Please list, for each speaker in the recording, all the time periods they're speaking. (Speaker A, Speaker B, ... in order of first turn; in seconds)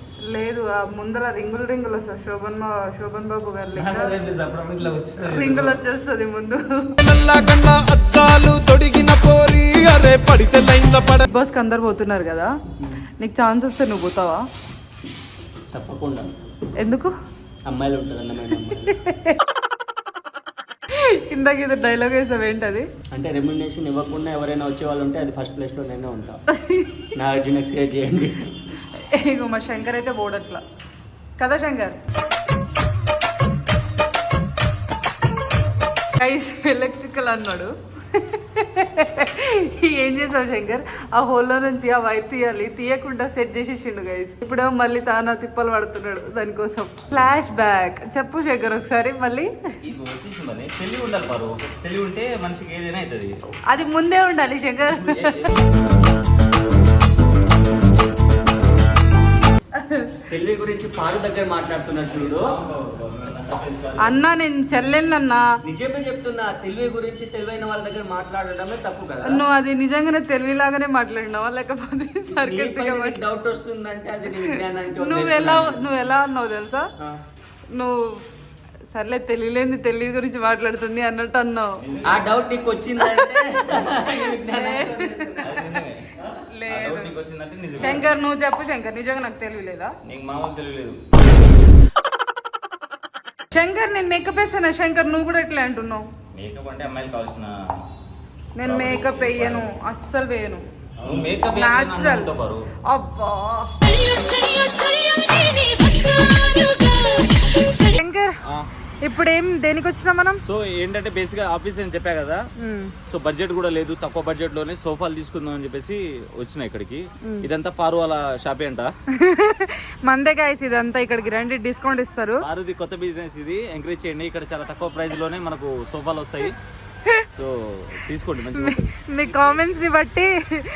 Speaker A: 0.3-4.2, 5.2-7.0, 11.2-12.5, 13.2-14.4, 16.8-17.1, 19.0-19.3, 20.9-22.9, 28.9-30.6, 31.4-32.0, 36.2-49.5, 53.7-55.5, 59.8-60.1, 64.0-65.4, 69.2-73.2, 74.3-76.9, 77.7-78.2, 78.9-81.8, 83.0-85.7, 86.5-87.1, 87.8-89.9, 93.5-96.0, 98.6-100.6, 101.5-102.3, 102.9-108.3, 109.0-110.4, 112.6-112.9, 117.2-117.5, 119.2-122.4, 128.6-130.3
Speaker B: 3.7-5.8, 49.8-53.3, 54.9-55.9, 62.1-64.2, 81.8-82.4, 85.4-86.1, 86.7-88.1, 90.0-91.0, 96.3-97.5, 98.6-99.7, 101.0-102.6, 110.4-112.4, 113.1-118.9, 122.4-126.5, 127.3-129.8
Speaker C: 7.0-11.2
Speaker D: 15.7-16.4, 17.6-19.0, 23.1-26.4, 27.2-28.5, 60.3-62.5, 65.6-69.4, 72.3-75.9, 82.0-85.4